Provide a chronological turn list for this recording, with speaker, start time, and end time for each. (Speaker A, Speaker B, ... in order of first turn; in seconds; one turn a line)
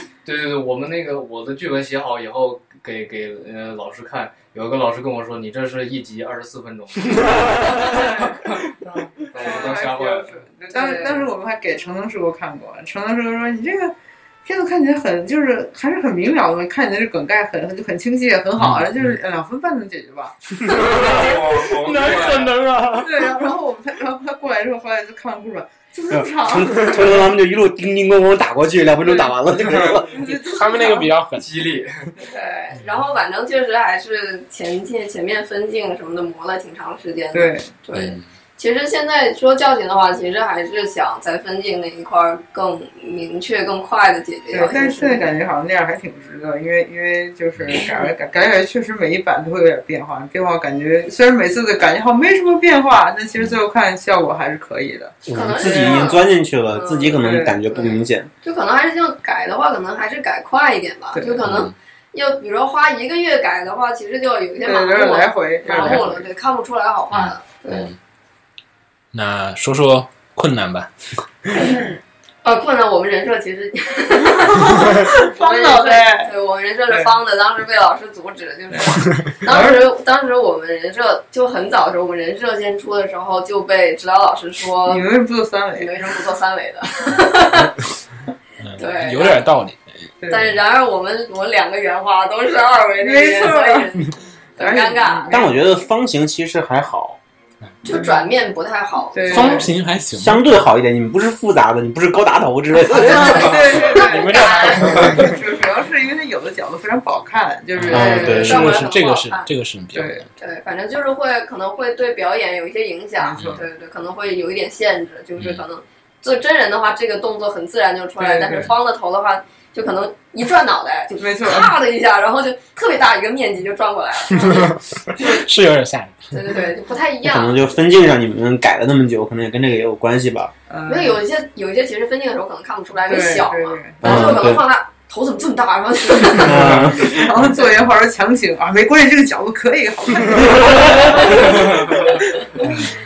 Speaker A: 0.2-8.6
Speaker B: 7.8-8.3
Speaker A: 9.3-10.3
Speaker B: 9.3-13.9
Speaker C: 10.7-11.3
Speaker B: 14.4-20.4
Speaker D: 18.6-19.2
Speaker D: 20.6-23.4
Speaker A: 20.9-22.5
Speaker B: 22.9-27.2
Speaker E: 26.1-30.2
Speaker B: 29.0-29.4
Speaker B: 29.9-31.1
Speaker D: 30.2-31.5
Speaker A: 31.4-32.0
Speaker C: 32.3-45.2
Speaker B: 37.3-37.7
Speaker D: 37.9-38.2
Speaker B: 44.5-56.1
Speaker D: 47.6-47.9
Speaker C: 47.7-48.1
Speaker D: 53.4-53.6
Speaker E: 55.3-58.3
Speaker C: 55.3-67.9
Speaker B: 57.2-57.6
Speaker B: 61.1-61.4
Speaker D: 61.4-61.7
Speaker B: 64.6-66.3
Speaker D: 67.1-68.0
Speaker D: 69.1-70.9
Speaker C: 72.4-85.1
Speaker B: 74.4-76.3
Speaker B: 78.7-79.8
Speaker B: 84.9-86.2
Speaker C: 85.8-87.8
Speaker D: 88.6-90.1
Speaker C: 88.8-89.5
Speaker B: 90.2-90.5
Speaker C: 90.3-95.4
Speaker B: 93.0-93.9
Speaker B: 94.6-95.5
Speaker E: 95.3-97.2
Speaker C: 97.8-99.7
Speaker B: 97.9-98.1
Speaker B: 99.1-99.7
Speaker D: 99.3-100.5
Speaker E: 100.1-103.8
Speaker B: 102.8-108.8
Speaker C: 103.0-105.3
Speaker D: 103.8-105.4
Speaker D: 107.8-110.3
Speaker C: 107.9-109.5
Speaker E: 107.9-108.6
Speaker B: 109.9-110.2
Speaker C: 110.4-125.4
Speaker B: 113.2-113.6
Speaker D: 113.4-113.6
Speaker D: 115.4-115.6
Speaker B: 118.2-118.7
Speaker B: 121.2-121.8
Speaker D: 124.3-126.2
Speaker C: 126.3-127.8
Speaker E: 127.2-130.5
Speaker B: 130.7-131.2
Speaker C: 130.9-136.7
Speaker B: 133.1-134.3
Speaker E: 134.0-134.6
Speaker E: 136.3-137.3
Speaker B: 136.4-142.7